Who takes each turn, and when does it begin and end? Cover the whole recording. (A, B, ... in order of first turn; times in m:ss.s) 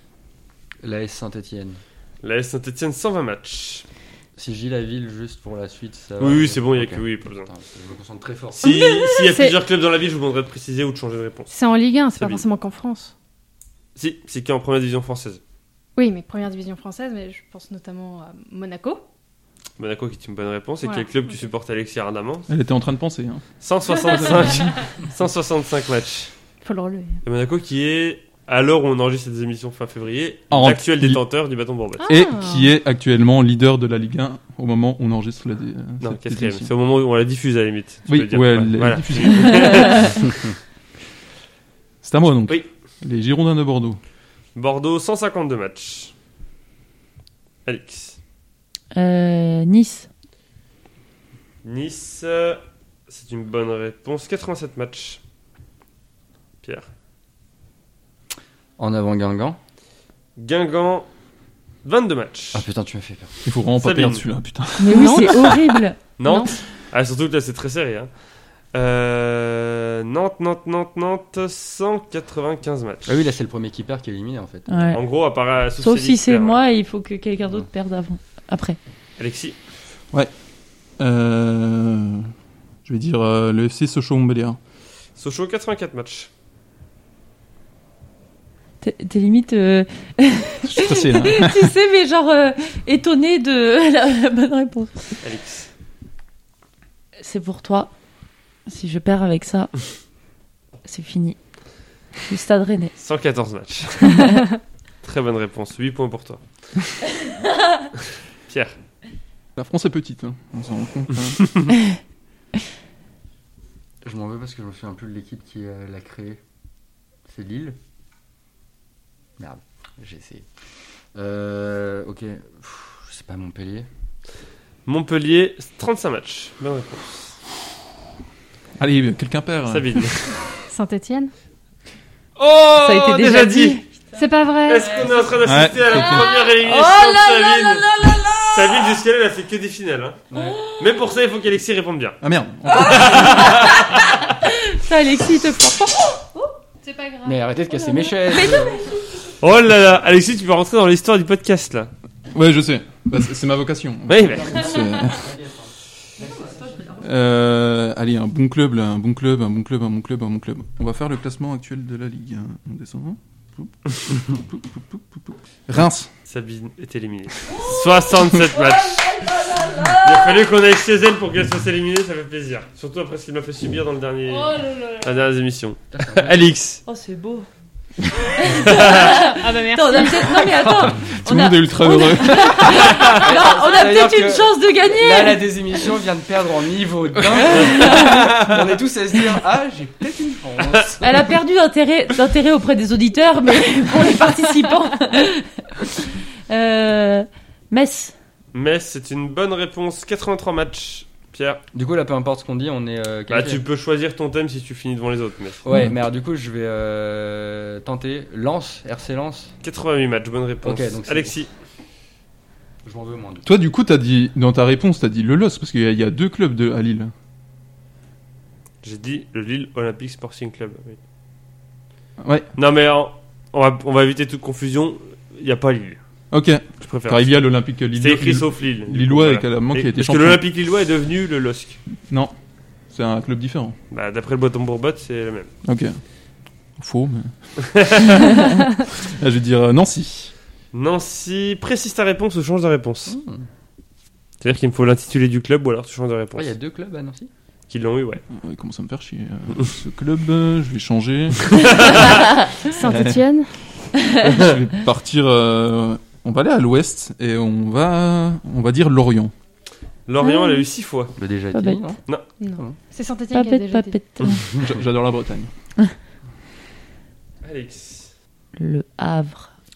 0:00.8-0:01.8 A
0:02.2-0:03.8 B
0:04.4-0:08.8 A
0:06.2-0:07.5 B
0:08.6-0:11.5 B
0:08.6-0:09.6 C
0:11.5-0:13.1 C
0:12.2-0:12.4 B
0:14.0-0:15.4 B
0:16.0-0:19.0 C
0:19.8-0:22.5 B
0:20.8-0:21.4 C
0:22.5-0:23.4 D
0:23.6-0:26.3 B
0:24.0-0:24.7 D
0:26.6-0:27.2 C
0:27.2-0:32.0 B
0:30.5-0:31.2 D
0:32.0-0:32.7 C
0:32.1-0:36.7 D
0:36.0-0:40.5 B
0:38.1-0:40.2 D
0:39.6-0:40.1 E
0:42.0-0:44.0 D
0:44.6-0:46.1 B
0:47.6-0:48.2 B
0:48.9-0:50.1 E
0:51.6-0:55.2 B
0:56.6-0:56.9 B
0:58.8-0:59.6 A
1:00.4-1:01.1 B
1:01.8-1:02.7 B
1:02.5-1:03.4 A
1:03.4-1:05.6 D
1:03.8-1:04.2 B
1:04.8-1:06.0 E
1:04.9-1:05.5 C
1:06.2-1:08.1 B
1:06.2-1:06.6 C
1:08.7-1:13.2 B
1:13.1-1:14.9 A
1:14.7-1:15.0 E
1:14.9-1:16.6 B
1:15.8-1:18.8 E
1:19.2-1:19.6 B
1:21.0-1:22.3 D
1:22.8-1:24.6 D
1:25.2-1:26.3 B
1:28.8-1:35.2 E
1:30.6-1:31.7 D
1:35.2-1:35.7 B
1:37.2-1:37.9 E
1:38.7-1:39.8 E
1:40.8-1:41.4 E
1:42.2-1:42.9 E
1:43.0-1:44.3 B
1:44.1-1:44.4 E
1:45.0-1:46.4 B
1:48.0-1:48.8 B
1:49.6-1:51.7 D
1:54.0-1:56.4 A
1:57.2-1:57.8 A
1:59.4-2:00.5 A
2:01.1-2:03.9 A
2:04.9-2:07.4 B
2:08.8-2:10.1 D
2:09.7-2:10.4 B
2:10.7-2:11.3 C
2:12.4-2:13.8 B
2:12.8-2:13.8 E
2:14.2-2:15.1 C
2:14.7-2:22.2 B
2:14.8-2:18.8 E
2:15.4-2:16.3 D
2:20.3-2:20.6 A
2:20.4-2:20.7 E
2:22.2-2:23.6 D
2:22.7-2:24.2 B
2:22.9-2:26.5 E
2:26.8-2:28.5 C
2:27.2-2:28.8 A
2:28.3-2:29.0 E
2:29.4-2:31.9 B
2:32.3-2:35.3 D
2:34.1-2:34.6 B
2:34.5-2:36.9 A
2:37.0-2:46.1 D
2:46.3-2:49.1 B
2:47.5-2:50.4 E
2:50.0-2:56.8 B
2:54.5-2:55.0 C
2:55.9-2:56.5 A
2:56.9-2:57.5 E
2:58.2-3:05.6 E
2:58.5-2:59.1 B
2:58.8-3:00.9 C
3:01.2-3:02.7 D
3:03.1-3:11.3 A
3:07.5-3:08.3 E
3:10.6-3:10.9 B
3:11.0-3:18.1 E
3:18.5-3:21.6 B
3:21.7-3:23.6 A
3:23.3-3:25.6 B
3:25.6-3:29.5 A
3:25.7-3:26.0 D
3:29.6-3:31.5 B
3:30.6-3:31.4 A
3:32.8-3:33.5 A
3:33.4-3:37.1 D
3:38.8-3:41.0 B
3:42.2-3:42.5 D
3:42.6-3:46.0 B
3:46.3-3:50.4 D
3:46.8-3:51.8 B
3:52.1-3:52.3 D
3:52.9-3:53.8 D
3:53.9-3:55.5 B
3:55.6-3:56.0 D
3:56.8-4:00.3 D
3:57.6-3:58.3 B
4:00.7-4:03.2 B
4:03.1-4:03.5 A
4:04.4-4:06.5 B
4:06.4-4:07.3 A
4:07.7-4:08.2 B
4:08.3-4:12.1 D
4:11.5-4:12.2 B
4:12.6-4:13.5 C
4:12.8-4:13.2 D
4:14.2-4:19.3 D
4:14.2-4:14.6 B
4:20.1-4:21.1 B
4:20.2-4:20.7 E
4:21.2-4:22.0 A
4:21.5-4:21.8 E
4:22.4-4:24.0 C
4:23.3-4:24.4 E
4:24.4-4:25.5 D
4:27.4-4:28.1 B
4:28.6-4:29.5 E